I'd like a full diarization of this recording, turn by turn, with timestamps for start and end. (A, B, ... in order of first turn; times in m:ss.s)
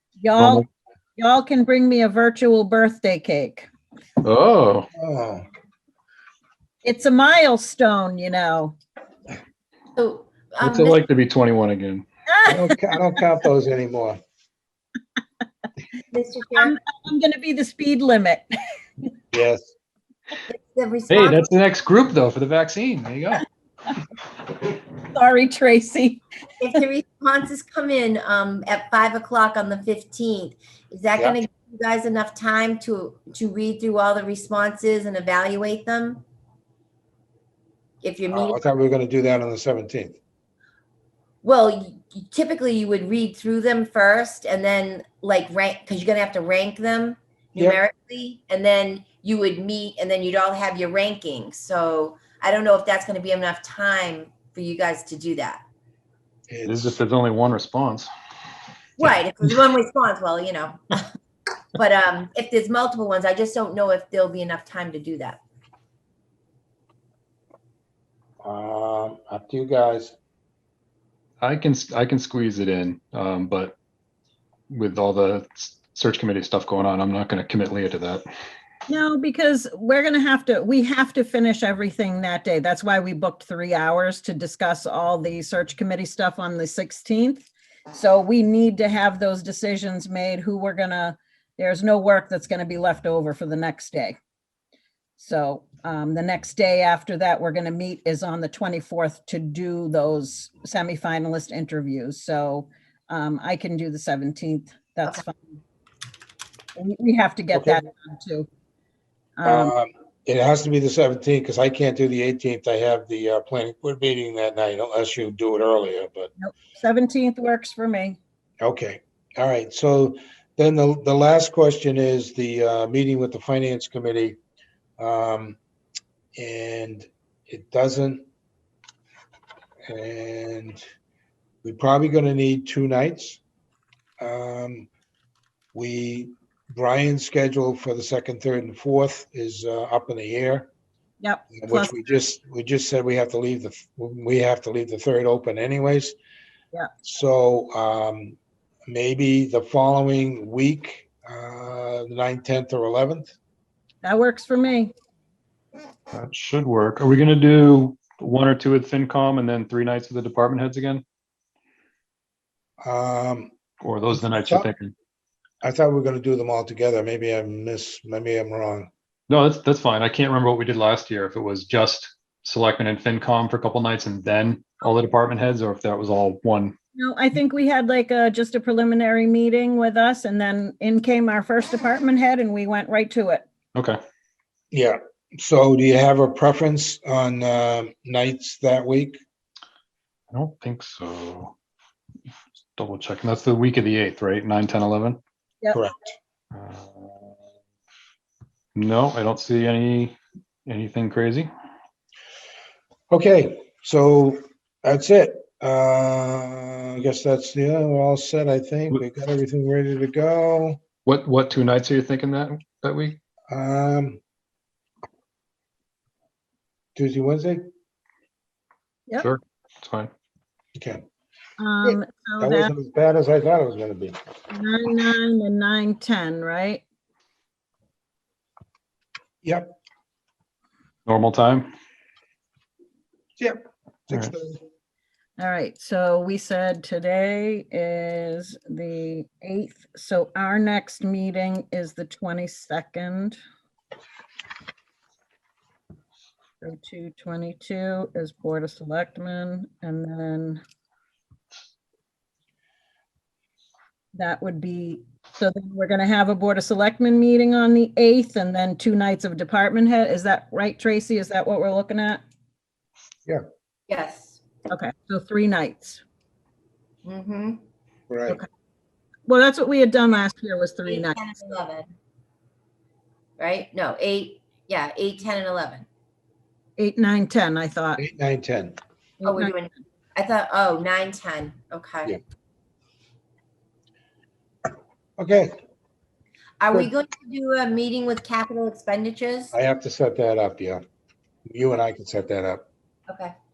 0:00.2-0:00.7 A
0:00.4-0:00.6 B
0:01.2-0:03.7 A
0:04.2-0:04.9 B
0:05.0-0:05.4 C
0:06.8-0:08.8 A
0:10.0-0:11.0 D
0:10.6-0:12.0 B
0:12.3-0:12.9 A
0:12.5-0:14.2 C
0:16.1-0:16.8 D
0:16.5-0:18.4 A
0:19.3-0:19.7 C
0:20.5-0:21.5 D
0:21.1-0:23.5 B
0:25.1-0:26.2 A
0:26.6-0:36.2 D
0:38.0-0:38.6 D
0:38.3-0:40.2 C
0:41.4-0:55.6 D
0:56.5-0:57.0 C
0:56.7-0:58.1 B
0:59.0-1:01.1 D
1:01.8-1:05.4 D
1:08.4-1:10.2 C
1:11.4-1:13.8 B
1:14.7-1:18.2 B
1:18.9-1:34.2 A
1:35.2-1:45.6 A
1:46.8-1:48.5 A
1:47.5-1:47.8 C
1:49.4-1:49.8 A
1:49.4-1:56.3 C
1:56.4-1:58.2 A
1:58.6-2:04.4 C
2:05.0-2:05.6 C
2:06.4-2:08.2 C
2:09.9-2:10.8 C
2:11.6-2:13.4 C
2:14.2-2:14.9 C
2:15.7-2:20.7 C
2:21.2-2:22.0 A
2:21.5-2:26.2 C
2:27.0-2:28.4 C
2:28.9-2:33.4 C
2:34.0-2:34.9 A
2:36.1-2:41.0 B
2:42.8-2:43.6 C
2:43.8-2:44.9 B
2:44.2-2:44.7 C
2:45.6-2:48.9 C
2:49.3-2:56.8 B
2:57.0-3:03.4 A
3:04.7-3:09.2 C
3:10.3-3:11.6 B
3:12.8-3:15.2 B
3:15.7-3:16.1 C
3:16.5-3:17.4 B
3:18.8-3:21.5 B
3:23.1-3:30.8 C
3:31.1-3:33.2 B
3:33.5-3:34.2 C
3:37.0-3:37.7 C
3:39.2-3:40.1 B
3:40.8-3:41.0 C
3:41.6-3:42.7 A
3:41.8-3:44.2 C
3:44.5-3:46.8 A
3:49.4-3:49.7 C
3:51.1-3:51.7 B
3:53.4-3:54.6 C
3:55.4-4:03.4 A
4:06.6-4:10.6 A
4:14.2-4:22.2 A
4:23.9-4:24.4 D
4:24.7-4:26.0 A
4:27.0-4:27.6 D
4:28.1-4:28.4 C
4:29.3-4:31.2 A
4:30.9-4:31.9 D
4:33.4-4:35.9 D
4:36.8-4:38.0 A
4:38.0-4:38.8 C
4:39.2-4:42.1 D
4:39.2-4:39.6 A
4:45.2-4:45.5 C
4:46.6-4:49.5 D
4:49.5-4:50.8 C
4:51.5-4:52.6 C